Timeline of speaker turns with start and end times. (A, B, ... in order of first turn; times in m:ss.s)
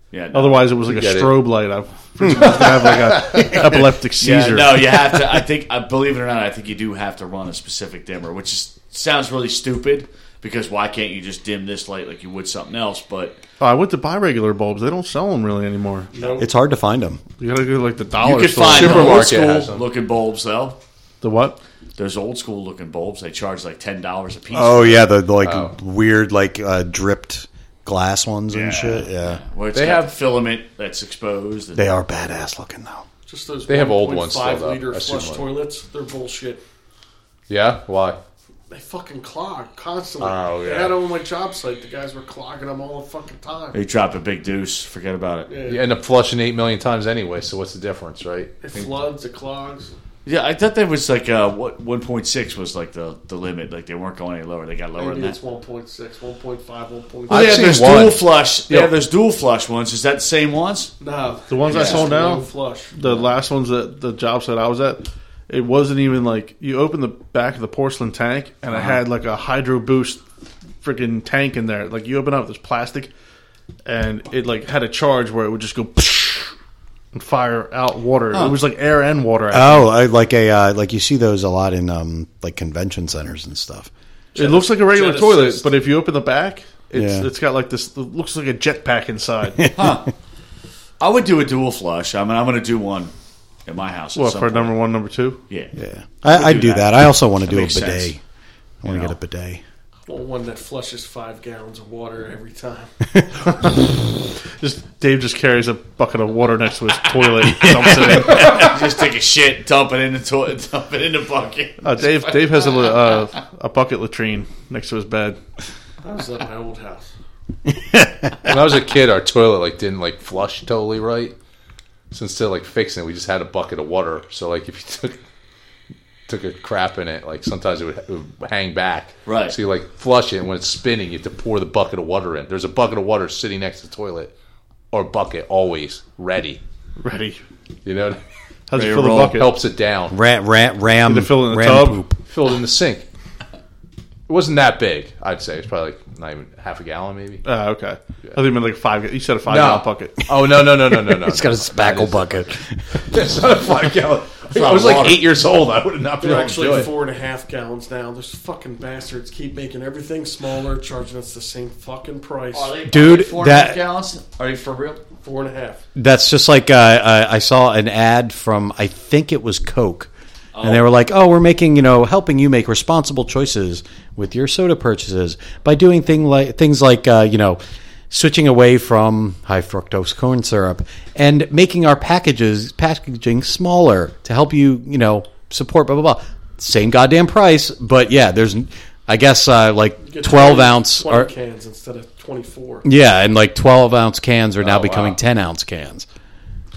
0:00.1-0:00.8 A
0:00.3-0:05.2 B
0:00.9-0:01.5 C
0:02.3-0:03.8 C
0:03.5-0:13.4 A
0:13.6-0:16.1 B
0:16.1-0:16.5 D
0:16.4-0:17.2 E
0:17.4-0:19.2 B
0:18.2-0:20.8 A
0:18.7-0:19.8 C
0:21.2-0:21.6 B
0:22.0-0:25.1 A
0:24.5-0:29.4 E
0:25.4-0:25.7 C
0:28.5-0:31.8 A
0:29.7-0:30.1 C
0:31.8-0:33.0 E
0:33.3-0:36.6 D
0:33.7-0:35.5 C
0:37.5-0:38.2 C
0:38.7-0:43.8 D
0:40.2-0:40.9 C
0:43.7-0:45.5 A
0:45.5-0:45.9 D
0:45.6-0:48.9 C
0:48.6-0:49.9 D
0:50.2-0:55.4 A
0:55.0-0:57.7 D
0:57.3-0:58.9 C
0:57.3-1:00.9 A
1:01.0-1:02.9 D
1:01.5-1:10.2 B
1:01.7-1:02.1 A
1:08.7-1:09.0 A
1:10.8-1:13.1 B
1:13.8-1:16.5 B
1:17.1-1:19.9 B
1:18.3-1:18.6 A
1:19.5-1:23.9 E
1:24.3-1:25.7 D
1:24.3-1:29.7 B
1:26.9-1:27.3 E
1:29.6-1:30.0 E
1:29.7-1:30.1 A
1:31.0-1:33.1 A
1:33.6-1:34.7 A
1:34.1-1:35.4 B
1:35.5-1:35.7 A
1:35.7-1:38.2 E
1:36.3-1:38.1 A
1:38.8-1:39.6 E
1:38.8-1:39.1 A
1:40.1-1:42.9 D
1:43.6-1:48.7 B
1:47.6-1:48.4 E
1:48.2-1:53.2 A
1:51.8-1:55.4 B
1:56.0-1:57.1 D
1:57.7-1:58.6 E
1:58.4-2:01.3 C
2:02.1-2:05.2 C
2:06.3-2:14.3 C
2:09.2-2:09.5 A
2:14.9-2:16.6 C
2:17.0-2:17.4 B
2:17.8-2:18.2 C
2:18.7-2:19.5 B
2:18.8-2:20.2 C
2:20.1-2:22.2 E
2:21.0-2:22.0 B
2:22.2-2:23.0 C
2:24.3-2:27.4 C
2:27.4-2:30.2 B
2:29.4-2:36.9 C
2:30.9-2:33.0 E
2:34.5-2:35.2 A
2:36.2-2:42.8 D
2:42.5-2:45.0 A
2:42.8-2:43.8 E
2:45.2-2:45.8 D
2:45.9-2:50.1 E
2:50.5-2:50.9 A
2:50.6-3:11.3 E
3:10.0-3:12.8 D
3:12.8-3:16.1 E
3:14.6-3:15.0 C
3:14.6-3:15.0 A